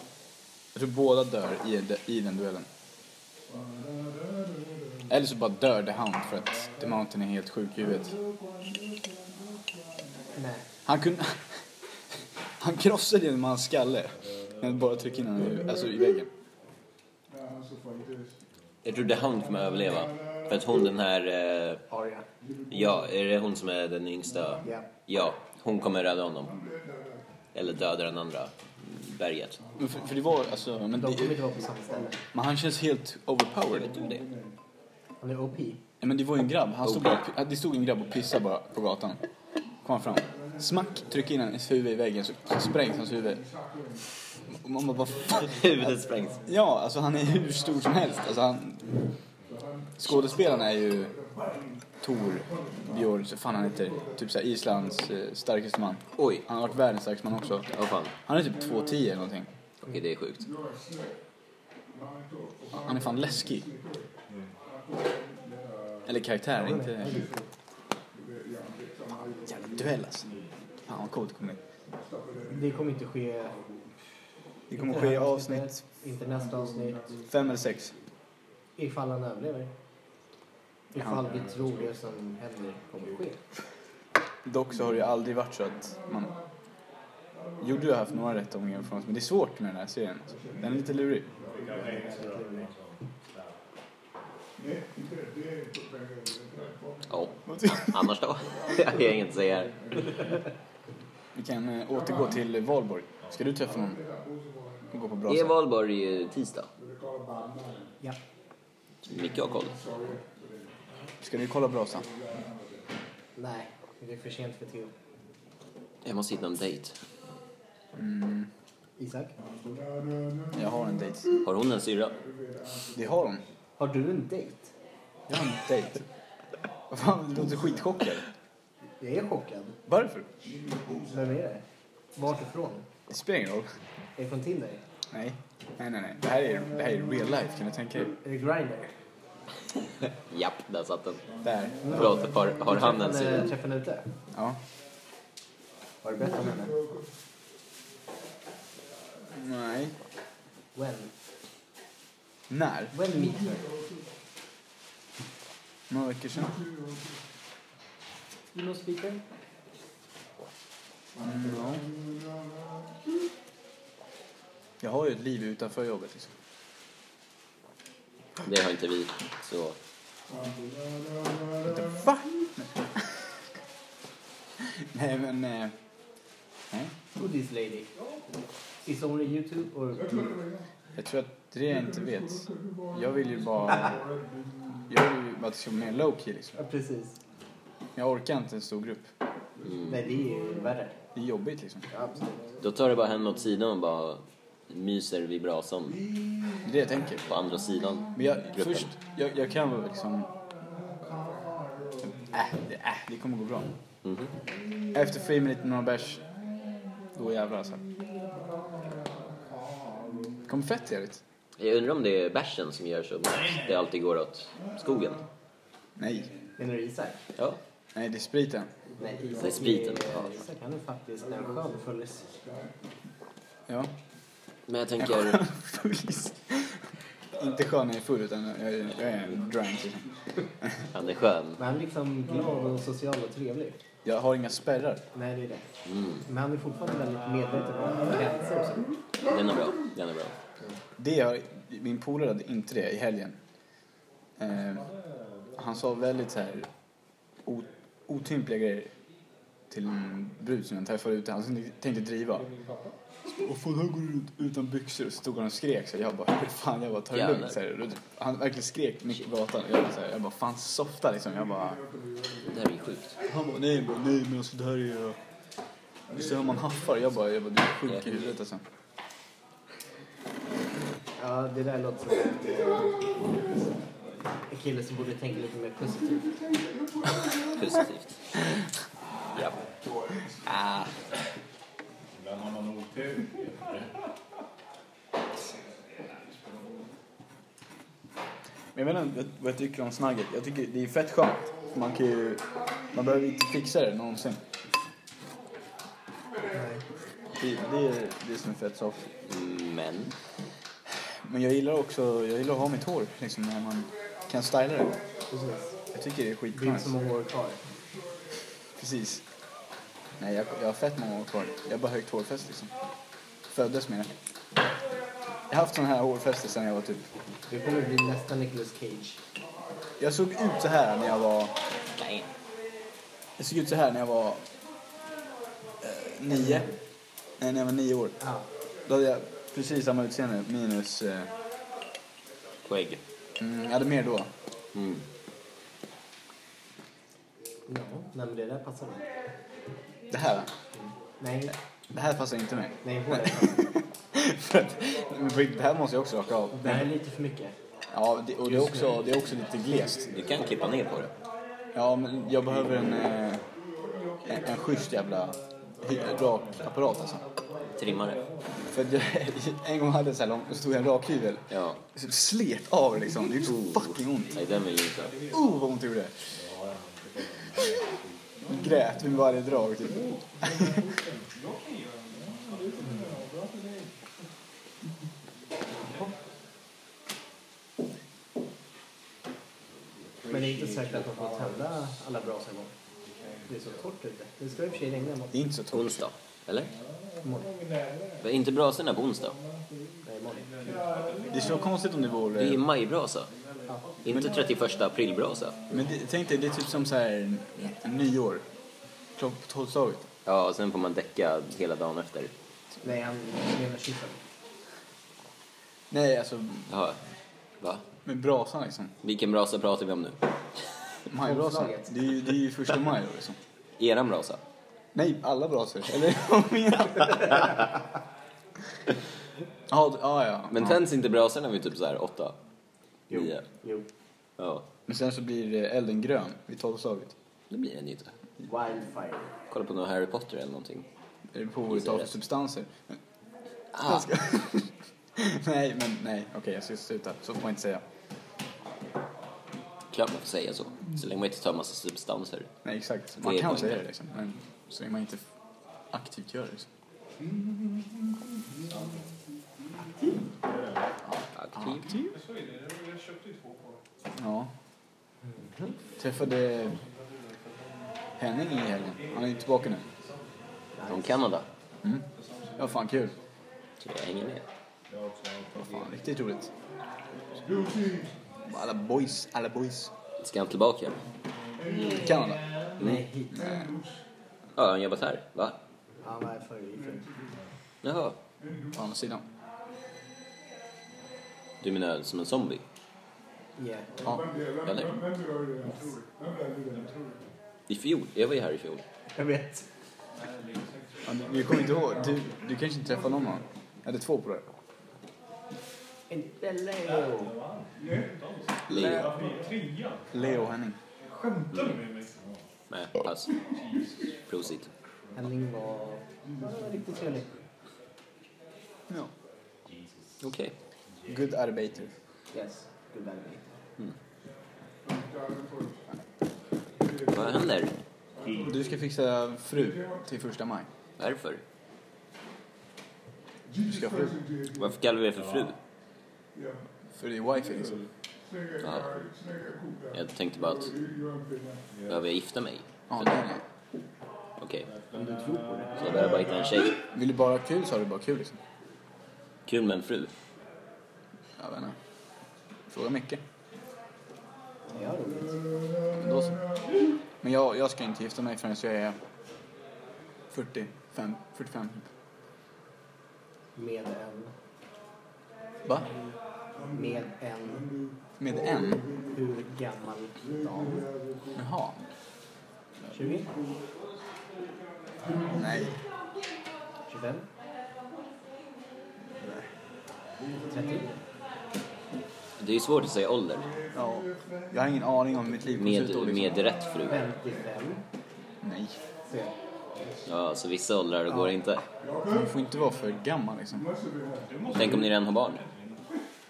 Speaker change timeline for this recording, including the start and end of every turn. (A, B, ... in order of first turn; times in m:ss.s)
0:00.7-0:02.7 A
0:05.1-0:08.2 A
0:10.3-0:10.7 B
0:10.8-0:11.6 A
0:12.6-0:16.3 A
0:18.8-0:21.8 C
0:21.9-0:22.2 B
0:22.7-0:26.6 C
0:27.5-0:29.6 C
0:29.8-0:31.5 A
0:31.0-0:32.2 B
0:32.3-0:33.9 A
0:33.7-0:34.3 C
0:35.2-0:35.8 B
0:36.0-0:39.2 A
0:36.8-0:37.2 C
0:39.8-0:43.5 A
0:44.5-0:45.7 A
0:45.3-0:46.4 C
0:46.4-0:48.9 A
0:50.0-0:51.2 A
0:52.0-0:59.5 A
0:56.2-0:56.4 C
0:57.7-0:58.1 C
0:59.8-1:00.5 C
1:02.7-1:03.7 A
1:06.0-1:07.2 A
1:06.6-1:07.4 B
1:09.2-1:10.3 A
1:10.8-1:11.6 A
1:12.5-1:13.6 B
1:14.7-1:15.8 A
1:14.7-1:17.1 B
1:17.2-1:17.9 A
1:18.8-1:19.7 B
1:20.9-1:23.4 B
1:24.4-1:26.4 A
1:27.6-1:31.3 A
1:31.4-1:33.5 D
1:31.9-1:32.7 B
1:37.1-1:40.2 C
1:37.5-1:38.1 A
1:41.3-1:44.0 A
1:44.9-1:45.5 A
1:45.3-1:46.7 C
1:49.0-1:49.9 C
1:51.2-1:52.1 A
1:53.4-1:54.9 B
1:56.0-1:57.0 C
1:57.9-1:58.5 A
1:59.0-1:59.3 B
2:00.5-2:01.3 A
2:01.4-2:02.2 C
2:02.9-2:03.4 A
2:03.8-2:04.7 B
2:05.3-2:06.0 A
2:06.9-2:08.3 A
2:09.0-2:09.8 B
2:09.9-2:10.3 A
2:11.0-2:11.6 B
2:12.2-2:12.8 B
2:13.1-2:13.8 A
2:14.2-2:14.8 B
2:15.1-2:18.1 A
2:18.2-2:18.9 B
2:20.3-2:21.2 C
2:21.4-2:22.0 A
2:21.8-2:24.1 B
2:21.9-2:23.5 C
2:24.3-2:24.6 A
2:26.0-2:26.8 B
2:29.3-2:30.0 A
2:30.7-2:31.1 B
2:32.5-2:33.0 A
2:32.9-2:33.7 B
2:35.9-2:36.6 A
2:38.5-2:39.2 B
2:41.2-2:41.9 A
2:44.8-2:46.3 A
2:48.4-2:49.8 C
2:51.6-2:53.2 A
2:54.6-2:55.7 A
2:57.2-2:57.9 B
2:58.8-3:00.3 B
3:01.0-3:04.0 A
3:04.8-3:06.6 A
3:06.6-3:07.2 B
3:08.0-3:09.1 A
3:09.8-3:11.0 B
3:11.1-3:11.9 A
3:11.9-3:12.5 B
3:12.6-3:16.0 C
3:16.6-3:17.2 A
3:17.2-3:18.9 C
3:18.1-3:20.3 A
3:22.2-3:23.7 A
3:24.0-3:24.3 C
3:24.9-3:26.2 A
3:27.1-3:27.8 A
3:30.4-3:31.2 A
3:31.6-3:35.2 C
3:36.0-3:36.3 A
3:36.6-3:37.2 B
3:37.9-3:38.7 A
3:39.0-3:42.3 B
3:39.4-3:40.4 C
3:44.7-3:45.4 C
3:45.0-3:50.8 A
3:50.9-3:51.6 C
3:51.6-3:53.8 B
3:54.0-3:55.0 A
3:55.1-3:59.0 B
3:55.8-3:56.2 C
3:59.3-4:00.4 C
4:01.0-4:03.4 A
4:04.4-4:04.9 A
4:05.5-4:06.7 A
4:07.4-4:08.9 A
4:09.7-4:12.5 A
4:12.5-4:12.9 E
4:13.2-4:21.8 A
4:17.1-4:17.6 C
4:22.4-4:23.2 C
4:23.2-4:25.2 A
4:26.1-4:28.6 A
4:27.9-4:28.2 C
4:31.2-4:33.0 B
4:34.5-4:36.4 B
4:37.4-4:38.5 C
4:39.3-4:39.6 C
4:40.4-4:41.0 C
4:42.2-4:43.9 D
4:48.7-4:54.4 A
4:56.5-4:56.8 B
4:57.3-4:59.1 A
4:59.3-5:00.1 C
5:01.0-5:05.0 A
5:05.3-5:05.8 B
5:05.9-5:07.0 A
5:06.5-5:07.6 B
5:08.8-5:09.2 A
5:10.2-5:12.7 A
5:13.5-5:14.1 A
5:15.5-5:17.0 A
5:17.5-5:19.2 B
5:20.0-5:21.5 A
5:22.0-5:22.3 C
5:23.4-5:24.5 A
5:25.8-5:26.7 A
5:26.3-5:26.7 B
5:27.4-5:28.1 A
5:28.2-5:28.5 B
5:28.8-5:31.3 A
5:32.6-5:33.0 C
5:33.4-5:34.3 A
5:34.7-5:35.0 C
5:37.7-5:39.1 B
5:40.1-5:40.5 A
5:40.8-5:41.5 B
5:41.9-5:46.9 A
5:42.8-5:43.7 B
5:46.5-5:47.6 B
5:47.9-5:50.3 A
5:48.5-5:49.0 B
5:50.1-5:51.1 C
5:51.7-5:53.5 A
5:54.2-5:57.2 A
5:57.8-5:58.2 C
5:58.6-6:04.4 A
6:01.5-6:01.8 C
6:03.3-6:05.3 C
6:04.7-6:05.4 E
6:05.3-6:06.3 A
6:06.3-6:08.2 D
6:08.5-6:10.8 A
6:11.3-6:13.2 E
6:20.0-6:21.5 D
6:20.3-6:22.7 B
6:23.1-6:23.4 D
6:23.5-6:25.4 B
6:25.3-6:26.0 A
6:25.7-6:26.7 C
6:27.2-6:27.5 B
6:27.5-6:28.1 D
6:28.2-6:29.4 C
6:30.0-6:30.5 B
6:30.4-6:31.6 E
6:31.3-6:32.6 A
6:32.3-6:33.3 C
6:34.0-6:35.7 C
6:35.7-6:38.4 A
6:39.2-6:40.1 A
6:40.2-6:42.3 C
6:42.8-6:44.2 B
6:45.9-6:46.7 A
6:46.7-6:47.0 C
6:48.0-6:48.9 A
6:49.0-6:50.2 C
6:51.1-6:53.4 A
6:51.2-6:52.0 B
6:53.8-6:54.4 C
6:54.9-6:57.6 A
6:59.7-7:00.8 A
7:00.5-7:02.4 C
7:03.1-7:03.9 B
7:03.1-7:03.4 C
7:04.4-7:04.6 C
7:04.9-7:07.1 A
7:07.5-7:08.1 C
7:08.4-7:09.3 B
7:09.5-7:10.8 C
7:11.3-7:13.0 A
7:11.7-7:12.1 C
7:13.7-7:14.1 C
7:13.8-7:17.8 A
7:19.9-7:22.5 C
7:22.6-7:25.3 A
7:23.2-7:23.8 C
7:25.9-7:26.7 A
7:28.7-7:29.0 D
7:30.4-7:30.8 D
7:31.1-7:32.1 A
7:31.4-7:32.1 C
7:32.1-7:33.8 E
7:34.2-7:34.5 A
7:35.3-7:35.8 B
7:36.0-7:36.8 A
7:36.8-7:37.9 E
7:38.2-7:39.9 A
7:39.0-7:40.2 E
7:40.7-7:41.2 B
7:40.9-7:41.5 C
7:41.8-7:43.1 A
7:42.1-7:42.8 E
7:43.8-7:44.4 C
7:44.9-7:45.9 D
7:45.5-7:46.5 A
7:48.4-7:49.9 A
7:50.2-7:51.0 C
7:51.7-7:53.5 B
7:51.9-7:52.4 A
7:53.3-7:53.7 A
7:54.5-7:55.6 C
7:56.0-7:57.0 B
7:57.8-7:58.2 C
7:58.7-7:59.2 A
8:01.6-8:02.6 C
8:03.6-8:03.9 B
8:04.0-8:04.3 A
8:04.6-8:05.0 C
8:07.7-8:08.8 C
8:09.2-8:09.6 B
8:10.2-8:11.8 E
8:11.0-8:14.4 A
8:16.1-8:17.4 B
8:17.0-8:17.7 D
8:18.0-8:20.2 E
8:18.7-8:19.1 C
8:18.7-8:19.1 A
8:19.0-8:19.3 D
8:20.1-8:20.8 A
8:21.3-8:21.9 E
8:21.5-8:21.8 C
8:21.6-8:22.4 D
8:22.7-8:23.3 C
8:23.6-8:24.0 E
8:24.3-8:24.7 C
8:25.1-8:27.3 B
8:30.2-8:30.5 C
8:31.1-8:31.9 A
8:32.3-8:33.5 B
8:37.1-8:37.7 C
8:38.2-8:38.5 D
8:38.4-8:40.7 A
8:41.0-8:41.4 C
8:43.6-8:44.2 A
8:44.6-8:45.6 C
8:46.9-8:47.8 A
8:48.6-8:49.0 C
8:49.9-8:50.9 C
8:51.9-8:53.2 C
8:52.9-8:53.4 A
8:54.4-8:54.7 C
8:54.7-8:56.2 D
8:54.9-8:56.0 B
8:55.8-8:56.8 C
8:56.9-8:58.4 A
8:59.4-9:00.1 C
9:01.4-9:01.8 A
9:02.7-9:03.2 A
9:04.7-9:05.5 B
9:05.9-9:06.4 A
9:07.2-9:09.0 A
9:10.3-9:11.9 A
9:13.6-9:14.3 B
9:16.7-9:17.7 B
9:18.2-9:18.8 A
9:19.1-9:20.9 B
9:21.3-9:21.8 A
9:22.9-9:23.3 B
9:25.3-9:25.8 A
9:26.9-9:27.2 B
9:30.4-9:31.0 B
9:32.4-9:33.5 C
9:33.7-9:36.5 A
9:35.6-9:37.0 C
9:36.9-9:37.8 B
9:38.4-9:38.8 A
9:40.0-9:41.6 C
9:42.1-9:43.7 A
9:44.2-9:44.9 E
9:44.5-9:45.4 C